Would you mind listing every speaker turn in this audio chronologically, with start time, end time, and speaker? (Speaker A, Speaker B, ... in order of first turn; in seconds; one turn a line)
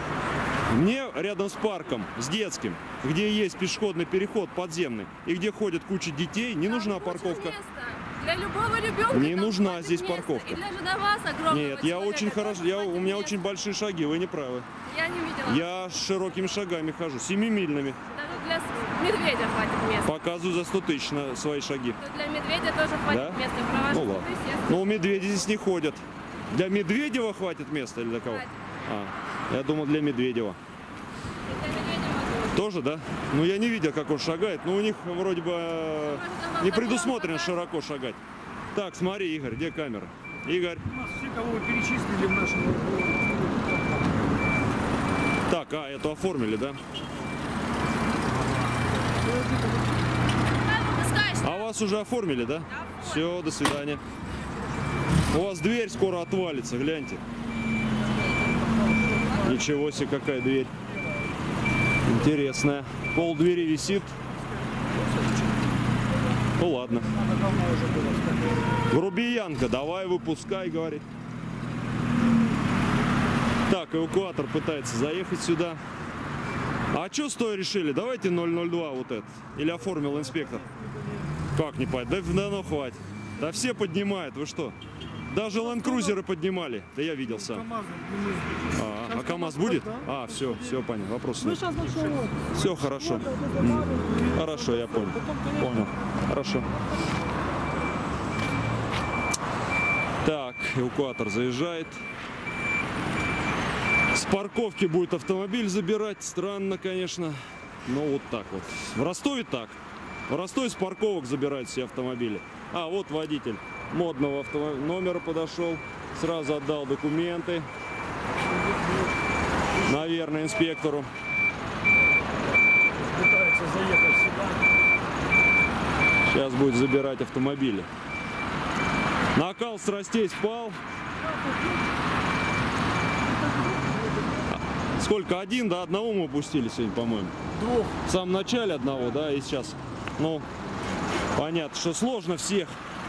Speaker A: 0.7-7.6
Speaker B: 6.6-13.4
Speaker A: 9.1-10.6
Speaker A: 11.5-14.7
Speaker B: 14.9-15.7
Speaker A: 15.4-18.0
Speaker B: 18.1-20.1
Speaker A: 20.0-22.0
Speaker B: 22.0-25.0
Speaker A: 23.1-30.6
Speaker B: 28.2-28.5
Speaker B: 31.5-32.6
Speaker A: 32.5-38.2
Speaker B: 36.0-37.7
Speaker A: 38.7-40.8
Speaker C: 40.9-43.9
Speaker A: 45.5-46.8
Speaker B: 50.6-51.9
Speaker A: 51.4-54.0
Speaker B: 52.7-53.4
Speaker A: 55.3-57.2
Speaker C: 59.0-59.6
Speaker A: 59.4-60.7
Speaker A: 62.0-64.1
Speaker A: 66.6-67.1
Speaker C: 67.1-68.6
Speaker A: 68.9-71.0
Speaker A: 73.7-75.8
Speaker A: 76.9-80.7
Speaker A: 81.5-84.8
Speaker A: 85.3-87.7
Speaker C: 85.4-86.2
Speaker C: 87.3-90.8
Speaker A: 88.7-91.8
Speaker C: 91.4-95.8
Speaker A: 92.5-96.7
Speaker A: 100.2-102.0
Speaker A: 104.1-109.8
Speaker A: 110.3-117.7
Speaker C: 118.7-118.9
Speaker C: 119.8-120.1
Speaker A: 119.8-121.1
Speaker C: 123.1-124.6
Speaker A: 126.3-127.9
Speaker A: 129.3-130.8
Speaker C: 133.6-133.9
Speaker A: 134.5-137.3
Speaker C: 137.5-137.9
Speaker A: 138.1-140.5
Speaker A: 141.3-142.8